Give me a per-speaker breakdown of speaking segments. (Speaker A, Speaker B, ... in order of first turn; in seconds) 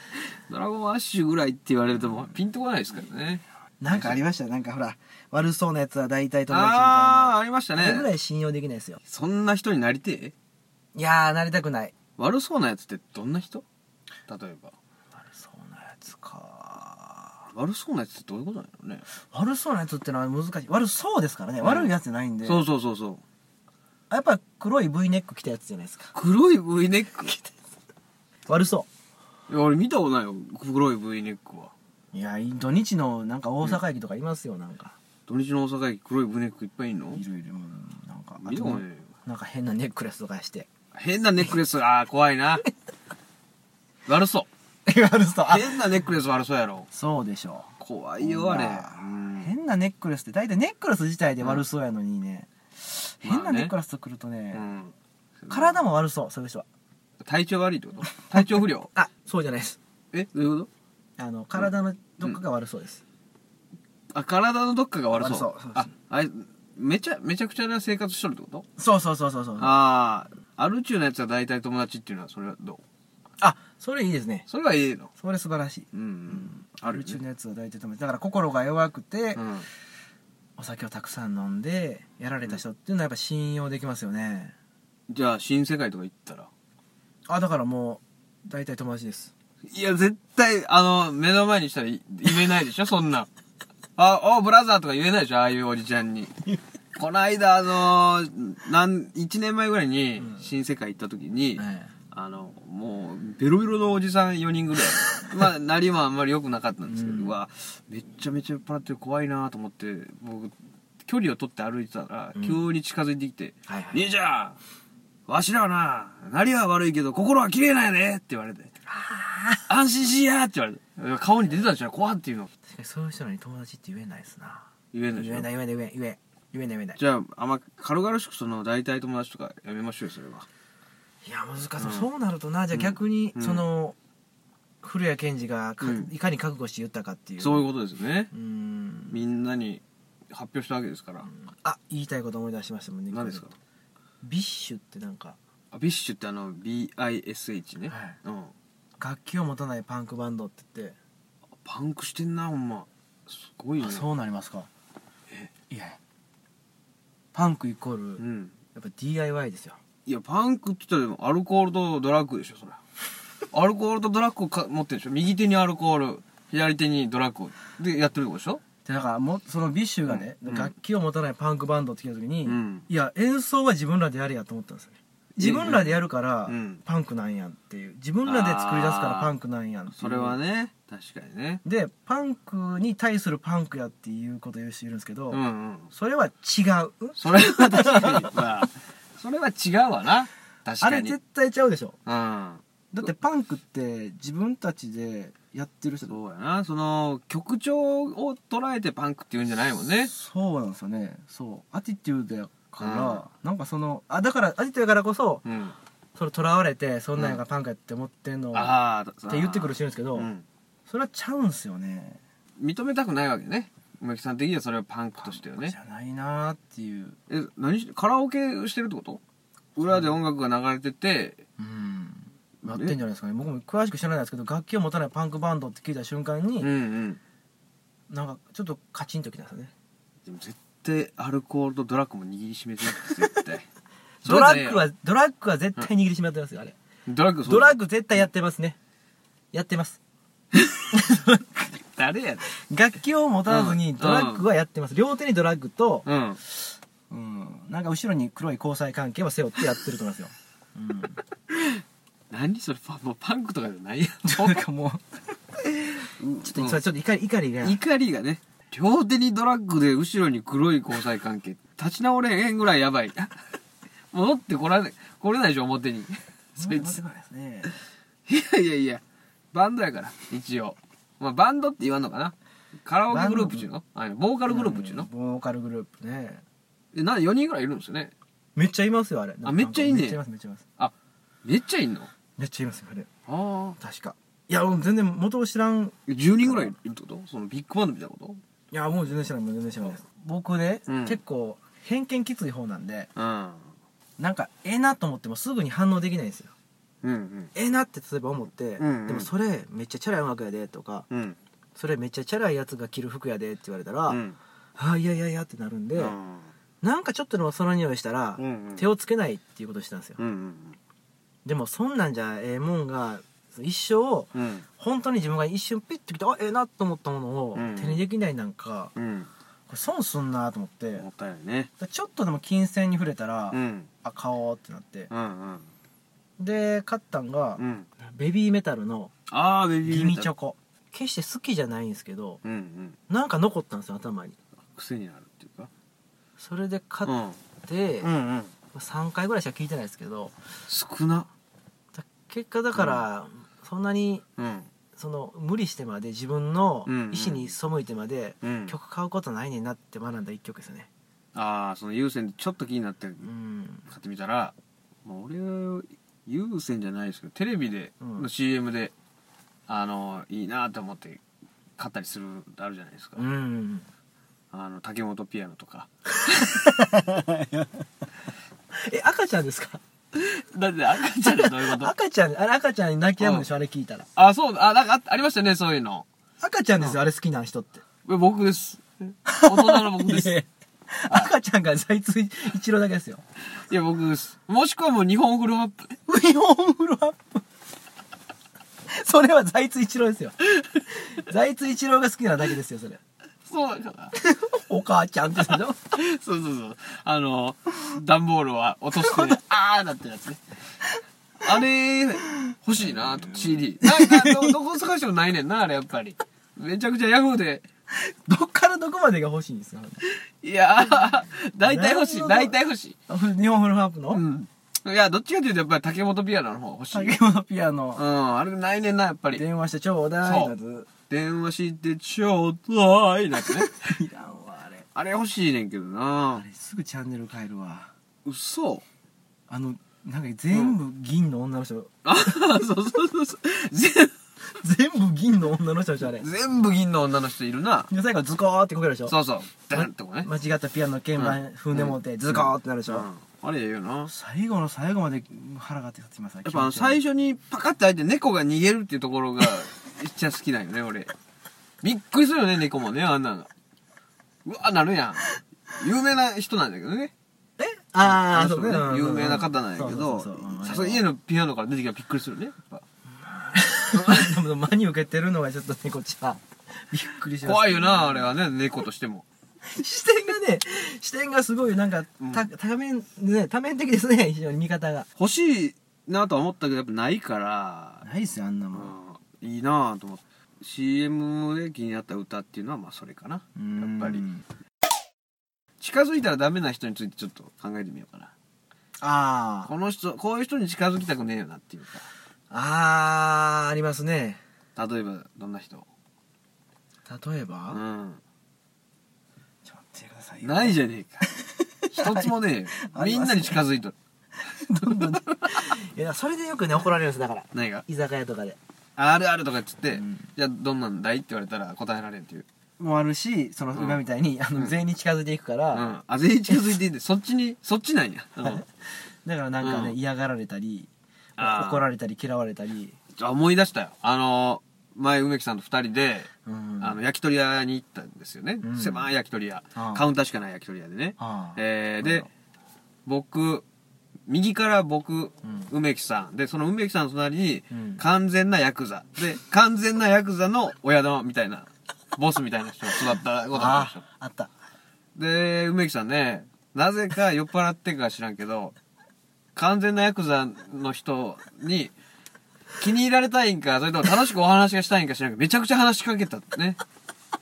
Speaker A: 0.5-4.2, 6.5-8.1, 9.1-10.3, 12.2-13.6, 14.3-14.7, 17.5-19.1, 21.6-21.9, 22.4-23.2, 26.1-27.4, 29.5-31.7, 35.3-37.2, 38.4-39.1, 40.9-42.6, 44.1-44.5, 45.5-46.9, 47.8-49.5, 53.2-53.7, 54.5-55.8, 57.2-58.9, 60.1-60.7, 64.1-68.7, 69.6-72.8, 74.5-75.1, 75.9-77.2, 79.3-79.7, 85.1-86.5, 89.7-93.3, 94.0-96.3, 97.0-114.6, 115.3-118.7, 119.7-122.5, 124.9-125.5, 127.0-130.5, 131.8-132.1, 132.7-133.6, 135.8-136.1, 137.4-138.3, 139.1-141.3, 143.1-143.5, 145.7-148.5, 151.6-154.1, 158.2-158.6, 160.1-162.8, 163.5-168.6, 170.1-170.7, 172.5-172.9, 175.4-176.8, 178.2-179.3, 180.0-181.6, 185.3-185.9, 187.2-191.2, 192.1-192.6, 196.1-200.1, 202.8-203.2, 205.5-205.8, 208.5-210.4, 212.6-215.8, 217.3-219.2, 219.8-221.4, 222.6-222.9, 226.6-227.2, 230.2-233.7, 234.2-234.9, 237.1-237.8, 241.8-242.5, 243.5-244.4, 246.1-246.4, 251.5-254.7, 256.2-256.8, 257.6-263.4, 264.1-267.0, 268.3-269.0, 269.5-275.1, 276.9-278.1, 279.4-280.2, 280.8-282.1, 283.3-283.8, 286.1-288.4, 290.9-291.2, 293.2-293.6, 297.0-297.5, 298.8-299.3, 301.1-301.4, 304.1-304.4, 306.0-306.5, 308.4-308.9, 310.2-310.8, 314.3-314.6, 317.6-318.0, 318.9-319.3, 321.0-321.7, 323.5-323.9, 325.1-325.7, 327.6-327.9, 329.3-330.3, 332.4-333.0, 334.7-335.7, 337.1-337.4, 338.0-338.5, 340.7-341.3, 342.8-343.0, 344.4-344.7, 346.9-347.5, 348.4-348.7, 351.3-353.3, 353.9-358.9, 359.7-361.2, 361.8-363.2, 364.5-366.6, 370.1-371.9, 373.2-373.5, 374.2-376.1, 378.1-380.4, 383.7-385.9, 393.5-394.1, 395.5-400.4, 401.4-407.6, 410.4-413.0, 414.1-417.2, 418.0-419.4, 420.2-420.5, 421.1-423.9, 424.9-426.4, 428.2-428.8, 430.5-430.8, 432.0-434.1, 436.0-437.9, 439.1-440.3, 441.2-444.1, 446.4-451.1, 451.8-453.5, 454.4-457.1, 458.0-462.8, 463.9-464.4, 467.4-469.2, 472.2-472.5, 475.2-478.0, 478.7-484.2, 485.8-488.3, 489.7-492.1, 494.8-495.9, 497.7-498.2, 500.4-501.2, 501.9-503.9, 504.9-505.4, 507.5-507.9, 509.0-512.5, 513.8-514.0, 515.7-518.6, 519.6-520.0, 521.4-521.9, 523.2-532.3, 533.1-533.6, 534.3-544.0, 545.1-548.8, 549.5-551.9, 552.8-556.8
Speaker B: 3.8-9.0, 10.9-11.9, 15.2-17.4, 19.3-22.6, 24.1-26.1, 28.5-28.9, 32.1-35.0, 37.1-40.7, 44.9-45.8, 46.9-54.6, 55.5-56.7, 58.1-59.8, 61.2-63.0, 65.1-65.9, 68.8-69.8, 73.4-74.5, 75.2-79.4, 80.6-84.5, 87.3-89.3, 100.2-100.5, 101.6-101.9, 106.9-107.3, 112.4-112.6, 113.7-114.0, 118.9-119.7, 122.7-127.0, 131.2-134.0, 134.8-137.7, 138.3-139.2, 141.3-143.4, 144.2-145.4, 147.9-148.2, 149.0-151.0, 153.8-154.7, 155.7-156.0, 157.3-158.2, 158.7-159.8, 168.8-180.4, 181.6-188.4, 190.8-192.0, 192.9-196.2, 200.1-205.4, 206.2-208.7, 209.3-210.3, 210.9-212.2, 215.2-217.2, 221.6-226.7, 228.1-229.7, 233.0-233.4, 234.2-236.8, 237.5-238.8, 239.5-240.0, 240.9-241.7, 242.6-246.1, 247.1-251.2, 254.2-255.0, 256.4-257.8, 266.6-267.8, 273.1-273.7, 274.5-276.4, 278.6-280.6, 282.4-283.1, 283.8-286.7, 288.7-293.1, 294.2-296.5, 297.6-301.1, 301.8-304.2, 304.8-306.2, 306.8-310.2, 311.4-318.9, 319.7-321.1, 321.8-325.1, 326.4-329.1, 329.9-332.4, 333.1-334.4, 336.4-337.1, 337.7-338.1, 338.7-340.3, 342.0-344.2, 345.0-350.9, 353.2-353.9, 358.0-358.3, 363.2-363.9, 366.2-367.9, 368.7-369.8, 371.2-374.1, 376.4-377.8, 379.3-383.2, 386.1-387.4, 388.9-393.0, 394.1-395.8, 399.0-399.4, 402.9-404.6, 407.9-410.1, 411.6-412.6, 413.1-414.2, 416.9-418.0, 419.3-420.9, 423.6-424.9, 426.3-427.9, 429.5-431.9, 434.5-436.3, 437.9-439.1, 439.7-443.1, 444.1-447.0, 457.6-461.1, 463.2-468.3, 469.6-475.1, 478.0-479.0, 483.6-484.4, 489.0-489.7, 492.5-494.4, 497.1-497.8, 499.7-503.6, 504.4-508.6, 509.9-510.3, 512.8-516.0, 518.4-518.7, 519.2-523.0, 526.5-527.0, 528.6-529.1, 529.8-530.0, 531.2-532.3, 537.7-538.0, 543.5-544.5